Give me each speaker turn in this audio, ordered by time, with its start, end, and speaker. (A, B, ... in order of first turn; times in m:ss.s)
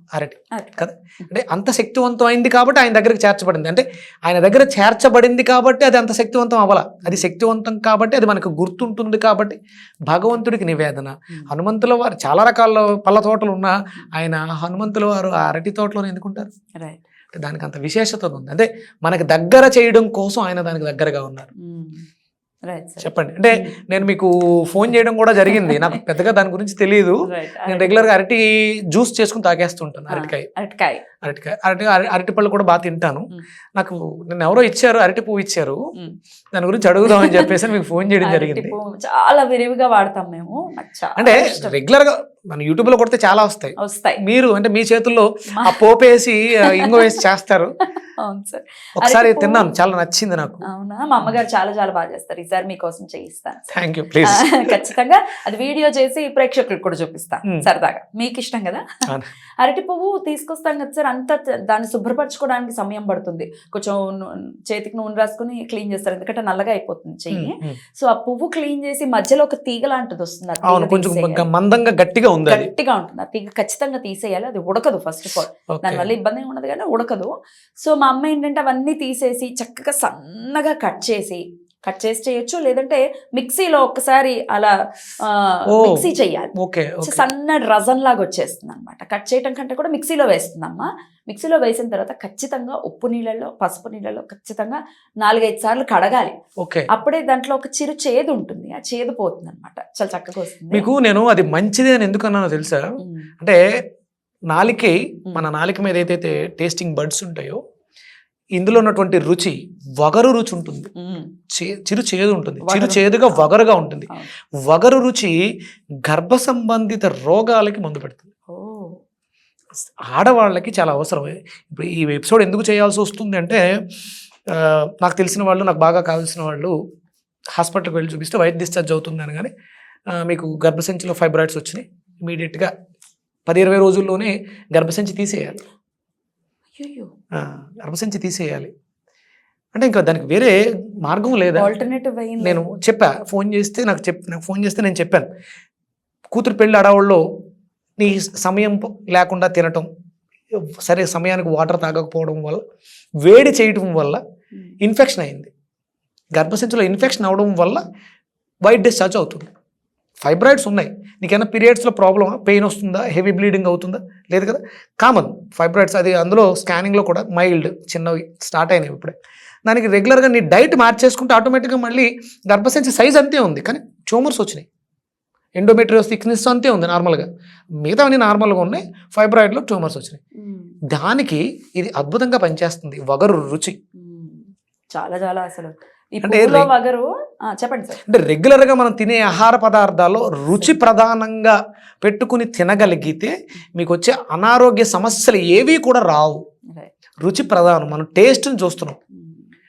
0:00.1-0:16.5 A
0:16.8-0:17.0 B
0:17.3-0:21.5 A
0:21.6-0:22.1 B
0:22.7-0:24.0 B
0:23.0-0:30.5 A
0:25.5-0:26.0 B
0:27.3-0:28.0 B
0:30.1-0:31.0 B
0:31.2-0:35.8 A
0:36.5-0:38.7 A
0:37.1-0:37.5 B
0:38.2-0:41.8 B
0:41.2-0:47.7 A
0:43.8-0:44.2 B
0:46.7-0:47.2 B
0:48.2-0:49.6 B
0:49.0-0:50.6 A
0:50.7-0:53.7 B
0:53.7-0:54.9 A
0:54.3-0:58.8 B
0:59.6-1:11.5 B
1:07.3-1:07.8 A
1:10.7-1:12.7 A
1:12.5-1:36.4 B
1:15.8-1:16.1 A
1:25.7-1:27.3 A
1:36.6-1:36.9 A
1:36.9-1:40.9 B
1:40.7-1:43.6 A
1:43.0-1:43.3 B
1:44.5-1:47.6 A
1:48.6-1:50.9 A
1:51.0-1:51.3 B
1:51.5-1:54.1 A
1:52.6-1:53.5 B
1:54.6-1:55.4 A
1:56.1-1:58.3 A
1:58.5-1:59.0 B
2:00.1-2:03.8 A
2:04.5-2:06.8 A
2:07.6-2:09.5 A
2:10.1-2:12.7 A
2:13.5-2:15.6 A
2:16.8-2:17.1 B
2:17.3-2:18.7 A
2:19.7-2:21.7 A
2:21.6-2:22.6 B
2:22.4-2:25.3 A
2:26.3-2:27.2 A
2:28.0-2:29.9 A
2:30.5-2:32.6 A
2:33.2-2:34.2 A
2:34.8-2:35.5 A
2:36.4-2:37.8 A
2:38.6-2:39.5 A
2:40.2-2:49.2 A
2:49.7-2:54.7 A
2:55.6-2:57.3 A
2:57.8-3:00.2 A
3:00.4-3:00.8 B
3:00.9-3:03.8 A
3:04.0-3:08.0 B
3:06.2-3:06.7 A
3:08.1-3:16.4 A
3:17.2-3:19.0 A
3:19.2-3:19.5 B